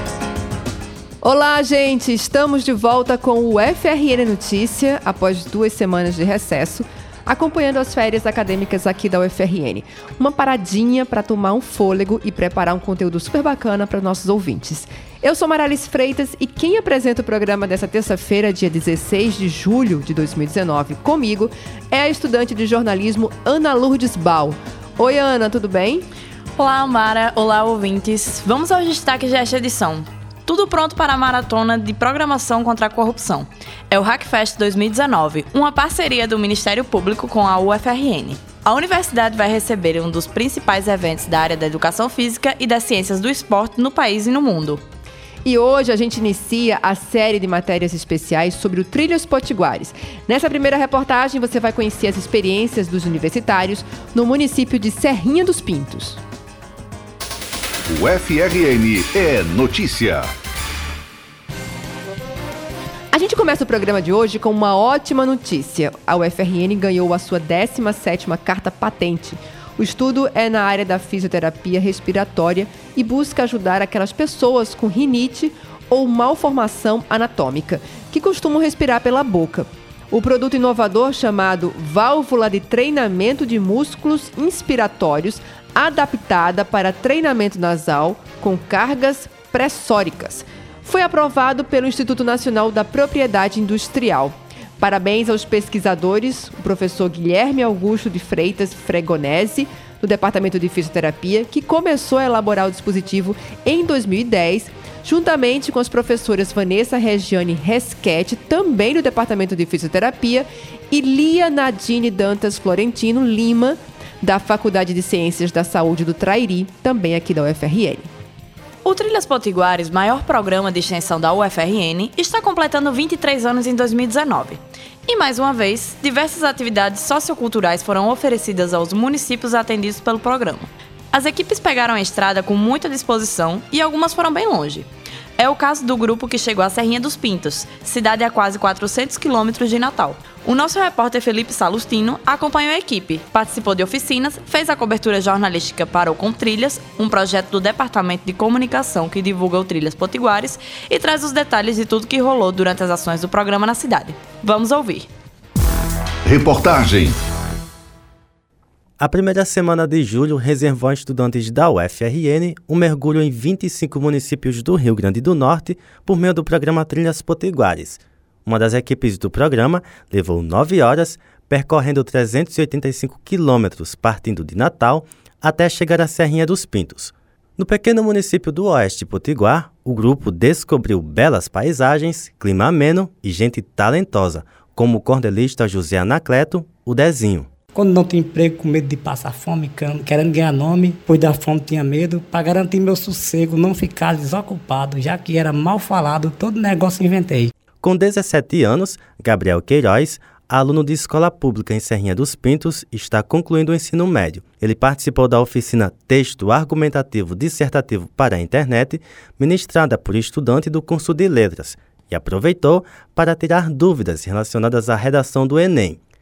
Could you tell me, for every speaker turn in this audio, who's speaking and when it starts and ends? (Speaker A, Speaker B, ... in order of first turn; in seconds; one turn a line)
Speaker A: 1.2-26.1
Speaker B: 26.6-44.8
Speaker A: 45.4-56.2
Speaker C: 57.9-60.3
Speaker A: 63.1-118.1
Speaker B: 118.8-155.1
Speaker C: 156.2-157.2
Speaker D: 159.0-187.5
Speaker E: 187.8-197.5
Speaker D: 197.8-216.0